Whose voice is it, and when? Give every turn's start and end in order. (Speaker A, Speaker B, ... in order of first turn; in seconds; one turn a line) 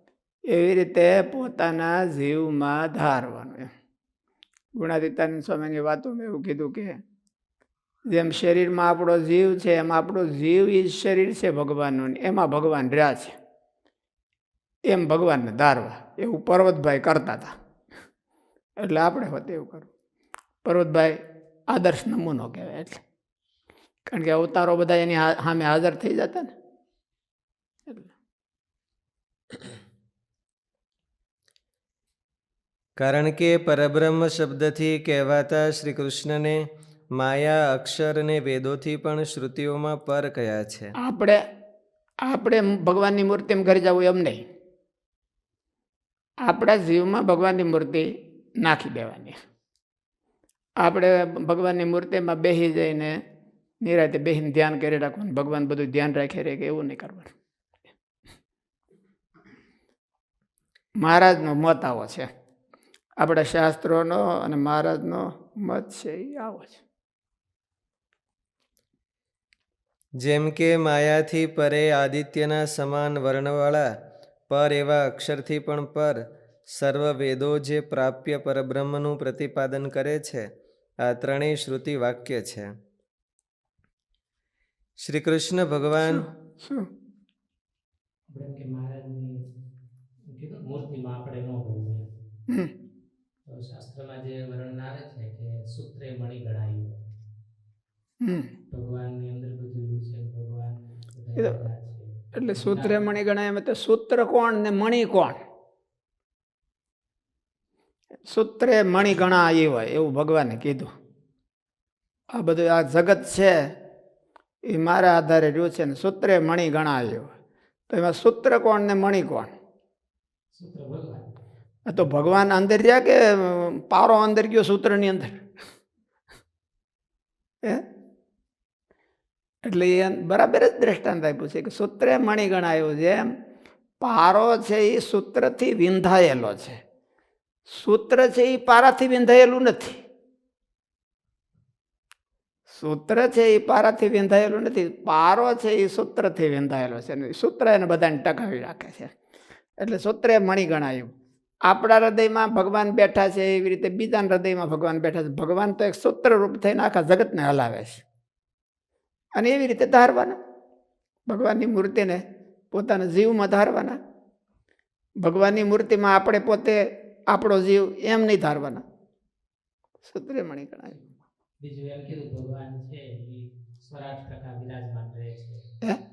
Speaker A: 0.5-3.7
Speaker A: 4.8-7.0
Speaker A: 8.1-13.3
Speaker A: 14.9-17.5
Speaker A: 18.8-19.9
Speaker A: 20.6-21.2
Speaker A: 21.7-23.0
Speaker A: 24.1-26.5
Speaker B: 33.0-36.6
Speaker B: 37.2-40.9
Speaker A: 41.0-41.4
Speaker A: 42.3-44.4
Speaker A: 46.5-48.1
Speaker A: 48.6-49.4
Speaker A: 50.8-53.1
Speaker A: 53.8-57.3
Speaker A: 61.0-62.3
Speaker A: 63.2-66.8
Speaker B: 70.2-73.8
Speaker B: 74.5-76.2
Speaker B: 76.8-80.4
Speaker B: 81.0-82.7
Speaker B: 85.0-86.3
Speaker A: 86.1-86.9
Speaker C: 88.3-89.3
Speaker C: 90.3-92.1
Speaker C: 93.5-96.9
Speaker C: 98.7-103.0
Speaker A: 102.4-105.4
Speaker A: 108.3-110.9
Speaker A: 112.3-113.6
Speaker A: 114.7-117.3
Speaker A: 117.9-119.5
Speaker C: 120.5-121.4
Speaker A: 121.9-125.4
Speaker A: 129.7-133.3
Speaker A: 134.0-136.8
Speaker A: 137.7-140.0
Speaker A: 142.7-149.1
Speaker A: 149.8-151.1
Speaker A: 151.7-158.0
Speaker A: 159.3-160.4
Speaker A: 161.3-164.0
Speaker A: 165.2-166.8
Speaker A: 167.3-168.8
Speaker A: 170.0-170.9
Speaker C: 171.6-175.7